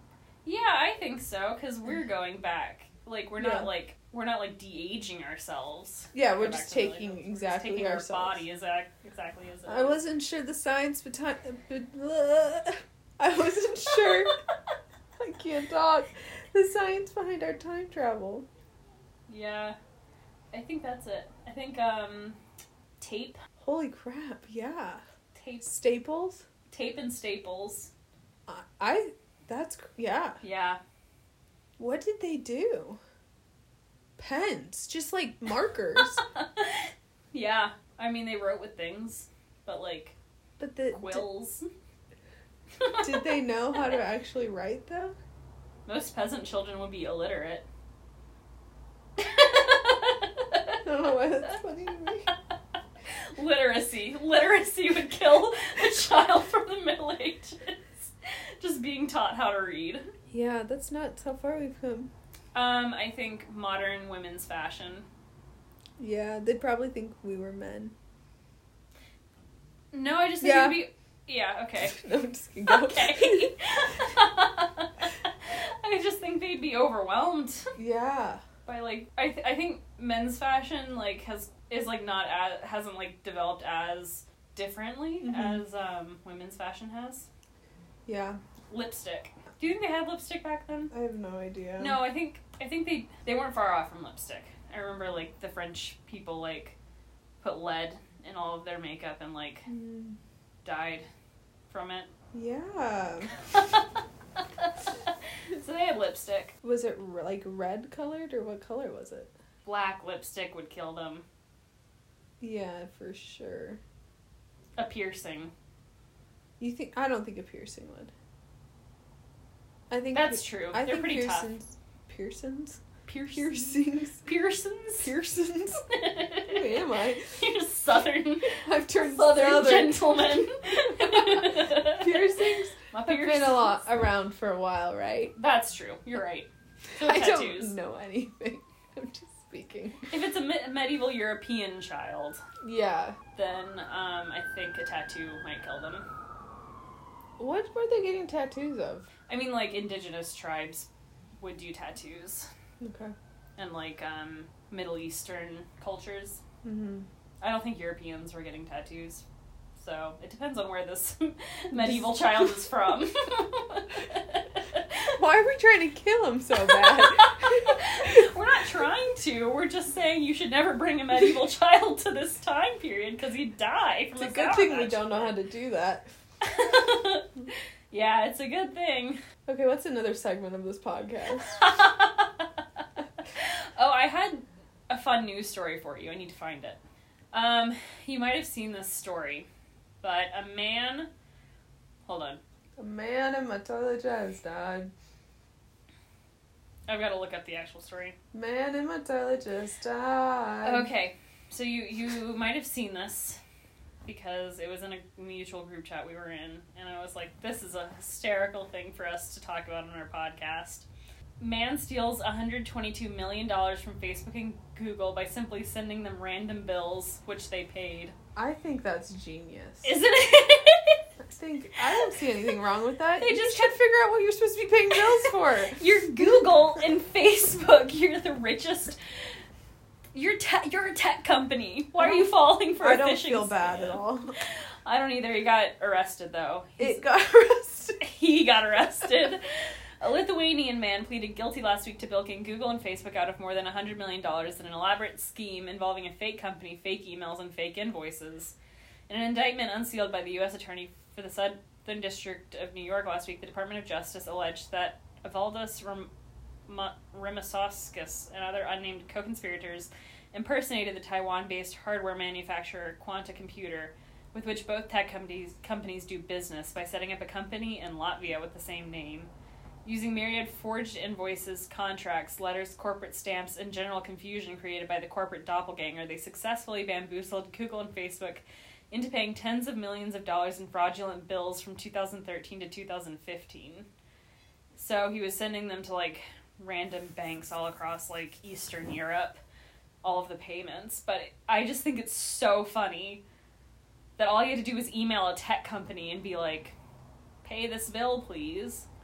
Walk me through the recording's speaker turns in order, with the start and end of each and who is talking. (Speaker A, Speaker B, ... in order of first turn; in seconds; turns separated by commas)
Speaker A: 0.4-10.0, Speaker B: 3.4-3.7, Speaker B: 6.1-8.4, Speaker B: 9.7-14.3, Speaker B: 15.2-18.5, Speaker A: 19.3-19.8, Speaker A: 20.5-22.4, Speaker A: 23.0-23.4, Speaker B: 23.6-25.0, Speaker A: 25.3-25.7, Speaker B: 25.6-26.4, Speaker A: 26.7-27.9, Speaker B: 28.5-30.4, Speaker A: 30.4-30.8, Speaker B: 31.8-33.0, Speaker B: 34.2-36.2, Speaker A: 36.0-40.1, Speaker B: 40.6-41.3, Speaker A: 40.9-41.7, Speaker A: 42.8-43.2, Speaker B: 43.0-45.1, Speaker A: 45.9-47.6, Speaker A: 49.2-50.8, Speaker B: 50.8-52.3, Speaker A: 53.3-60.1, Speaker B: 60.3-62.1, Speaker A: 62.5-65.1, Speaker B: 66.0-67.9, Speaker A: 69.9-72.0, Speaker B: 70.4-70.8, Speaker B: 71.9-73.5, Speaker A: 72.7-77.7, Speaker B: 77.8-78.4, Speaker A: 78.7-87.3, Speaker B: 85.2-85.6, Speaker B: 88.0-88.4, Speaker A: 88.7-90.9, Speaker B: 90.9-92.0, Speaker A: 91.8-96.8, Speaker A: 97.4-99.7, Speaker B: 99.7-100.2, Speaker A: 100.6-101.1, Speaker A: 101.7-102.1, Speaker B: 102.3-103.3, Speaker A: 103.5-103.8, Speaker A: 104.4-106.5, Speaker B: 106.6-109.3, Speaker A: 109.6-111.2, Speaker B: 112.4-113.8, Speaker A: 114.8-115.5, Speaker B: 116.6-118.1, Speaker B: 119.9-122.8, Speaker A: 120.1-121.5, Speaker A: 123.0-125.1, Speaker B: 123.3-124.2, Speaker B: 125.0-125.8, Speaker A: 125.8-132.3, Speaker B: 126.5-127.3, Speaker B: 128.5-130.1, Speaker B: 131.1-135.3, Speaker A: 132.9-133.7, Speaker A: 135.3-137.8, Speaker B: 137.0-140.0, Speaker A: 140.1-142.4, Speaker B: 142.6-143.2, Speaker A: 143.3-146.1, Speaker B: 147.4-149.1, Speaker A: 149.3-150.9, Speaker A: 151.4-152.5, Speaker B: 152.8-153.1, Speaker A: 153.6-156.4, Speaker B: 156.6-157.1, Speaker A: 157.4-159.2, Speaker A: 159.8-165.1, Speaker B: 165.2-168.2, Speaker A: 166.8-175.3, Speaker B: 174.2-176.1, Speaker A: 176.4-177.3, Speaker A: 177.9-179.2, Speaker B: 179.4-181.5, Speaker A: 181.5-182.6, Speaker A: 183.3-186.8, Speaker A: 187.3-189.5, Speaker A: 190.0-191.1, Speaker A: 192.1-192.4, Speaker B: 192.8-194.9, Speaker A: 196.9-198.2, Speaker B: 198.3-200.9, Speaker A: 200.6-203.4, Speaker A: 204.0-210.8, Speaker A: 211.4-218.1, Speaker B: 218.3-219.9, Speaker A: 219.8-221.0, Speaker B: 221.2-225.8, Speaker A: 223.2-223.7, Speaker A: 225.1-229.0, Speaker A: 230.1-234.0, Speaker B: 232.0-234.3, Speaker A: 234.8-237.0, Speaker B: 236.8-238.0, Speaker A: 238.0-239.4, Speaker A: 240.0-248.5, Speaker A: 249.1-256.1, Speaker A: 256.7-269.3, Speaker A: 269.8-283.9, Speaker A: 284.8-289.4, Speaker A: 290.0-293.2, Speaker A: 294.2-296.7, Speaker A: 297.4-298.9